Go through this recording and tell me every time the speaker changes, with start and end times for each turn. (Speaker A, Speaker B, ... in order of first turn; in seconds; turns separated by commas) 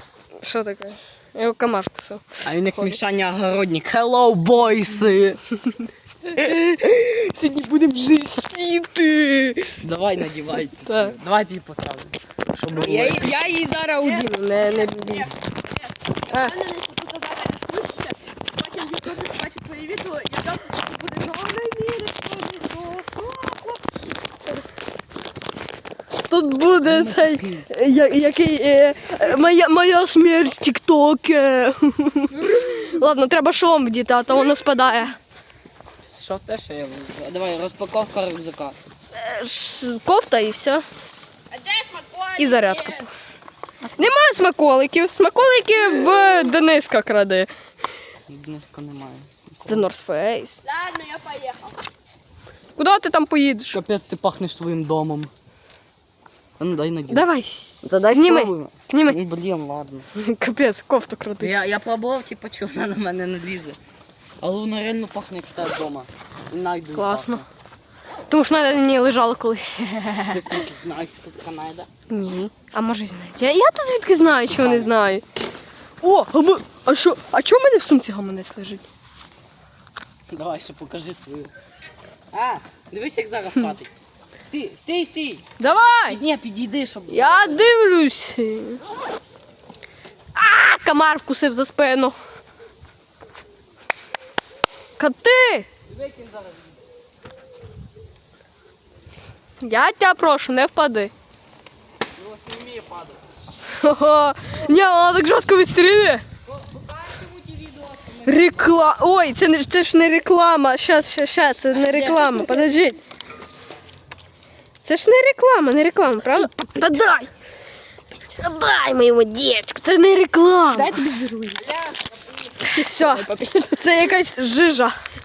Speaker A: 0.4-3.0, Speaker B: 2.5-5.4, Speaker A: 6.3-9.8, Speaker B: 9.8-13.4, Speaker A: 10.8-11.2, Speaker A: 12.8-15.4, Speaker C: 12.9-13.3, Speaker C: 13.9-23.8, Speaker A: 16.3-16.6, Speaker A: 26.1-35.2, Speaker B: 26.8-27.8, Speaker B: 36.1-38.8, Speaker A: 39.1-40.9, Speaker C: 41.5-43.1, Speaker A: 42.4-43.1, Speaker B: 43.8-44.2, Speaker A: 44.0-47.5, Speaker B: 48.3-49.9, Speaker A: 49.7-50.6, Speaker C: 50.6-51.8, Speaker A: 52.8-53.8, Speaker B: 53.7-55.3, Speaker B: 56.6-57.3, Speaker A: 57.1-59.2, Speaker B: 57.8-60.1, Speaker A: 60.1-61.5, Speaker B: 61.4-63.8, Speaker B: 64.4-67.5, Speaker A: 67.0-67.4, Speaker A: 68.3-70.6, Speaker B: 70.3-71.9, Speaker A: 72.1-75.2, Speaker B: 74.5-75.0, Speaker A: 76.0-78.8, Speaker B: 80.3-81.5, Speaker B: 82.3-83.9, Speaker B: 84.5-87.7, Speaker A: 85.6-86.2, Speaker A: 87.1-88.8, Speaker A: 90.3-92.2, Speaker A: 95.0-95.7, Speaker B: 95.9-96.8, Speaker A: 99.6-101.1, Speaker B: 102.2-103.2, Speaker A: 103.7-106.2, Speaker B: 106.5-108.7, Speaker A: 108.2-113.0, Speaker B: 111.7-112.6, Speaker A: 114.8-117.3, Speaker A: 118.4-121.0, Speaker C: 120.7-121.7, Speaker B: 121.6-122.1, Speaker A: 122.7-125.0, Speaker C: 122.8-123.8